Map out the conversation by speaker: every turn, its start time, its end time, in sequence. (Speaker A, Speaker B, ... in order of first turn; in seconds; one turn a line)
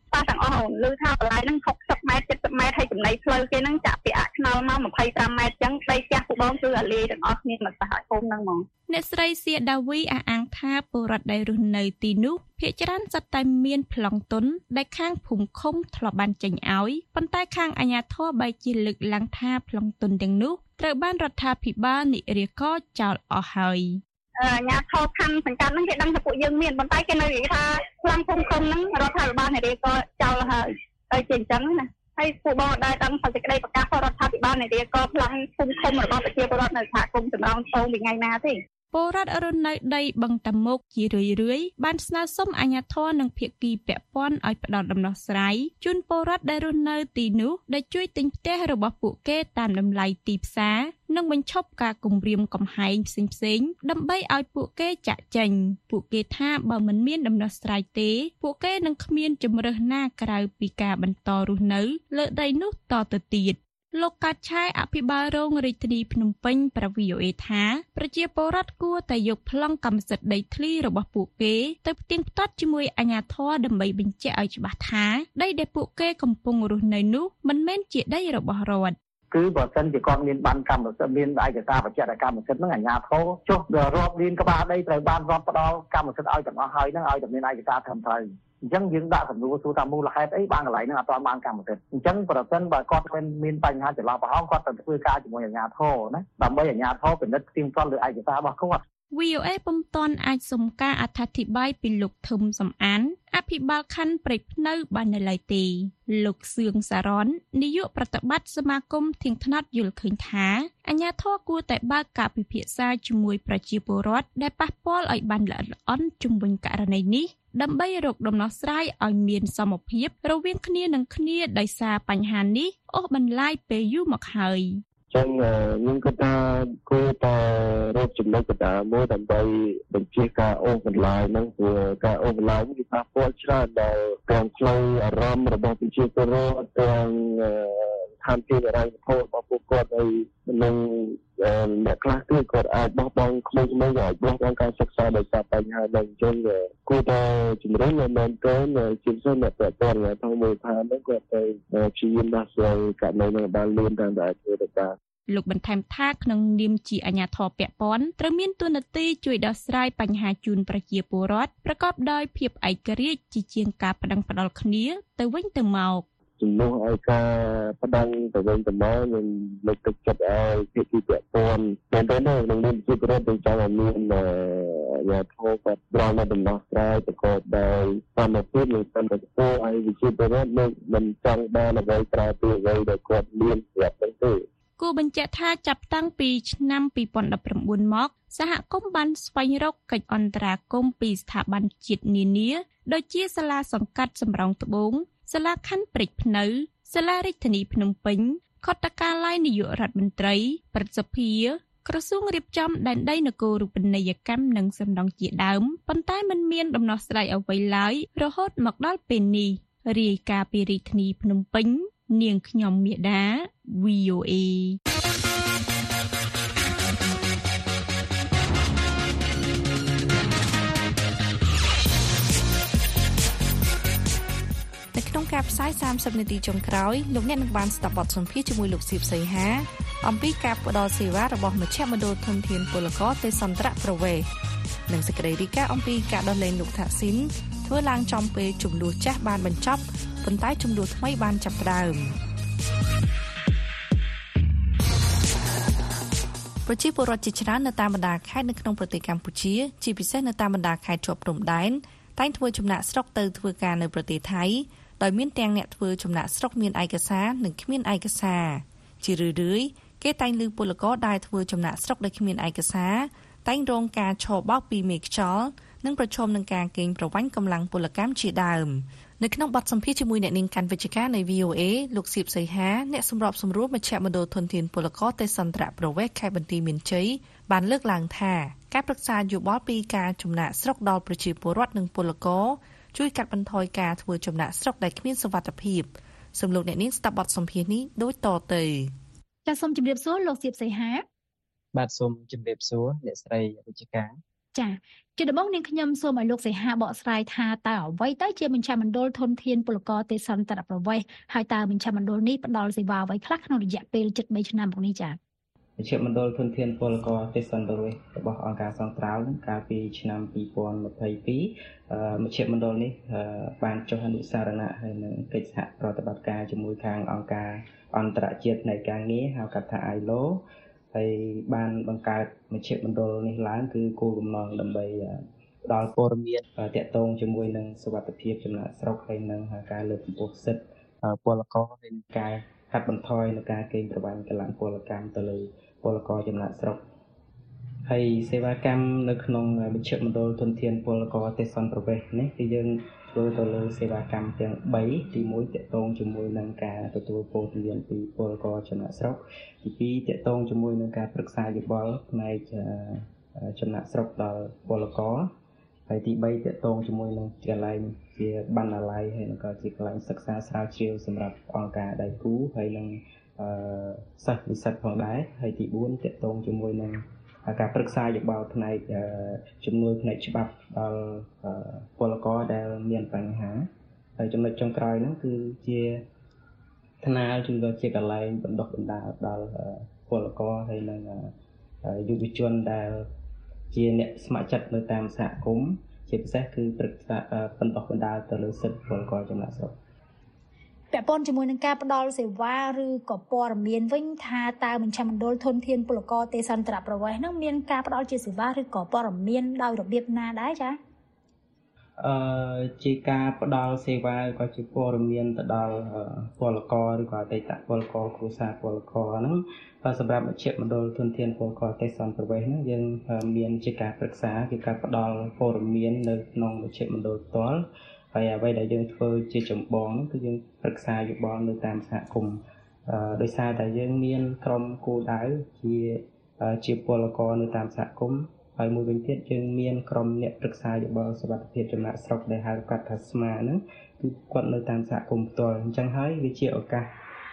Speaker A: 0.1-8.7
Speaker B: 8.9-24.0
Speaker A: 24.4-38.6
Speaker B: 38.9-79.0
Speaker C: 79.3-98.8
Speaker B: 99.1-124.8
Speaker D: 125.1-154.9
Speaker B: 155.3-166.1
Speaker D: 166.4-184.5
Speaker B: 184.8-214.8
Speaker E: 224.9-234.3
Speaker E: 234.9-242.2
Speaker E: 246.7-288.9
Speaker F: 289.5-291.1
Speaker G: 291.7-294.2
Speaker F: 294.5-305.2
Speaker G: 305.8-320.4
Speaker G: 320.9-336.8
Speaker G: 337.9-355.3
Speaker G: 355.9-376.0
Speaker G: 377.0-381.3
Speaker G: 381.8-383.1
Speaker G: 383.7-389.8
Speaker F: 390.9-400.8
Speaker G: 402.0-436.9